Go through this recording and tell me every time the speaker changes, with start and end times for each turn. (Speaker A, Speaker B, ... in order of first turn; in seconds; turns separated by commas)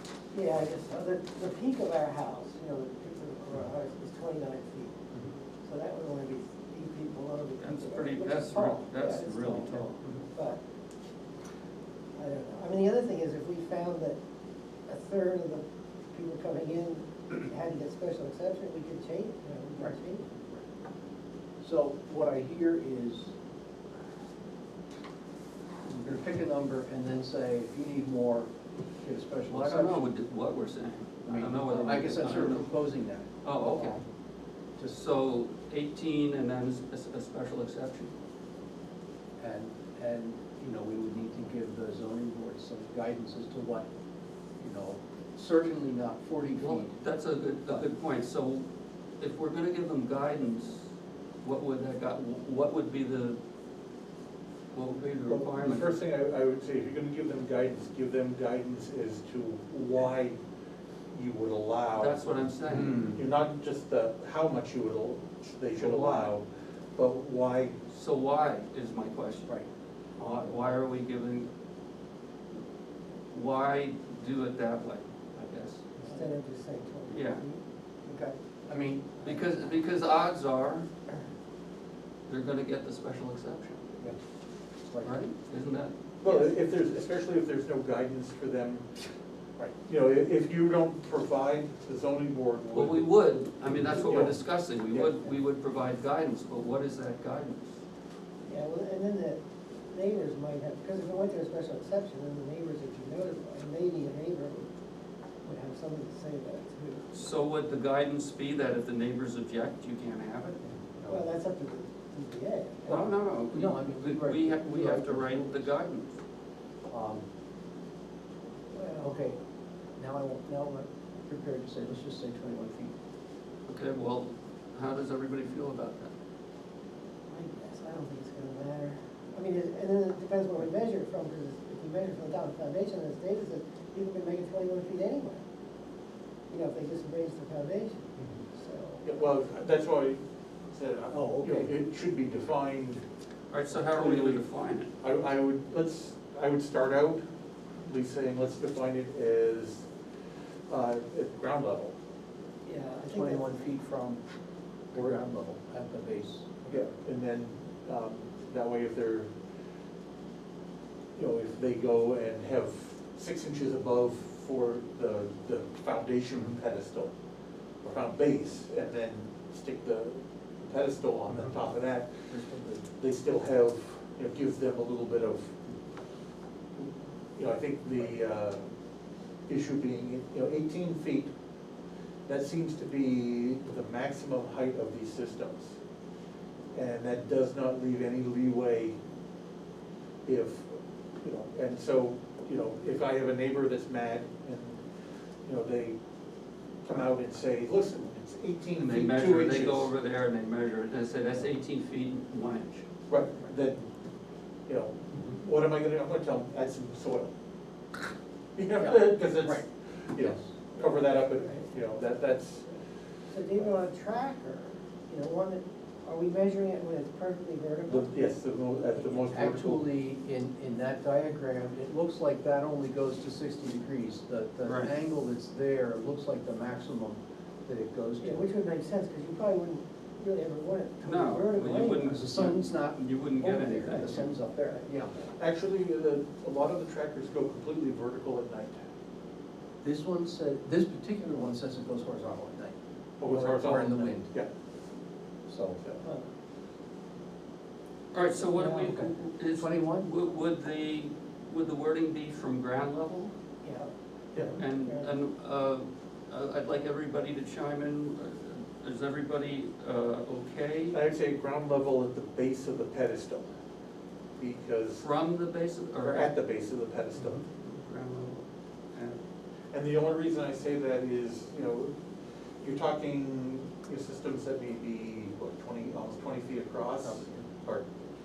Speaker A: 0.3-5.0, Speaker A: 5.6-10.6, Speaker B: 7.6-10.2, Speaker A: 12.2-14.2, Speaker A: 14.9-20.3, Speaker C: 21.6-23.3, Speaker C: 25.9-30.1, Speaker B: 29.5-32.7, Speaker C: 31.3-34.0, Speaker B: 33.4-34.0, Speaker B: 34.9-38.1, Speaker C: 39.4-43.9, Speaker C: 44.6-47.0, Speaker B: 46.6-48.7, Speaker B: 49.2-50.9, Speaker B: 51.4-53.4, Speaker B: 54.7-55.9, Speaker D: 55.3-60.4, Speaker D: 61.1-62.3, Speaker B: 62.0-63.1, Speaker D: 62.8-66.5, Speaker B: 65.8-66.3, Speaker D: 67.0-67.8, Speaker B: 67.9-69.6, Speaker B: 70.2-71.5, Speaker B: 73.3-75.9, Speaker A: 76.0-77.6, Speaker B: 77.1-77.4, Speaker C: 78.1-79.4, Speaker B: 79.2-80.9, Speaker B: 82.3-83.9, Speaker C: 84.9-85.3, Speaker B: 85.0-85.9, Speaker D: 86.2-89.0, Speaker D: 89.6-93.1, Speaker B: 92.7-97.8, Speaker D: 93.7-94.4, Speaker D: 94.9-95.2, Speaker A: 98.5-104.7, Speaker A: 105.4-107.0, Speaker B: 107.1-110.6, Speaker C: 110.9-111.2, Speaker A: 111.1-113.0, Speaker B: 112.9-116.2, Speaker C: 112.9-115.7, Speaker C: 116.9-117.2, Speaker A: 118.7-119.2, Speaker C: 119.0-119.4, Speaker C: 120.0-122.9, Speaker B: 123.7-126.1, Speaker A: 127.3-135.4, Speaker A: 136.5-139.2, Speaker D: 139.0-143.0, Speaker C: 141.1-141.7, Speaker B: 143.5-144.9, Speaker D: 143.9-144.4, Speaker D: 145.0-147.2, Speaker D: 147.8-149.9, Speaker D: 150.7-151.9, Speaker A: 152.7-153.5, Speaker C: 153.1-154.2, Speaker C: 154.9-156.8, Speaker D: 156.7-159.3, Speaker D: 161.2-167.1, Speaker D: 167.8-175.6, Speaker D: 176.8-178.7, Speaker D: 179.5-181.3, Speaker D: 182.3-185.8, Speaker D: 186.7-189.0, Speaker D: 190.2-194.8, Speaker D: 195.4-196.0, Speaker D: 196.8-199.9, Speaker B: 198.8-202.8, Speaker D: 203.1-203.9, Speaker D: 204.7-207.3, Speaker D: 208.6-212.7, Speaker C: 210.2-210.5, Speaker A: 210.8-211.6, Speaker A: 213.3-218.1, Speaker D: 217.9-219.8, Speaker C: 219.2-228.4, Speaker B: 224.7-224.9, Speaker A: 228.2-232.1, Speaker B: 231.0-234.3, Speaker C: 232.1-235.3, Speaker D: 235.4-238.9, Speaker C: 239.8-242.8, Speaker D: 243.2-244.5, Speaker C: 243.3-244.3, Speaker C: 245.5-245.8, Speaker A: 246.0-246.3, Speaker B: 248.1-253.3, Speaker A: 248.5-248.9, Speaker C: 248.8-250.1, Speaker A: 253.6-253.9, Speaker D: 254.3-254.6, Speaker B: 254.6-261.0, Speaker A: 254.7-255.2, Speaker D: 260.9-263.5, Speaker D: 264.4-265.1, Speaker B: 265.0-266.3, Speaker D: 266.0-267.4, Speaker B: 267.3-269.2, Speaker D: 269.7-272.0, Speaker D: 272.6-277.9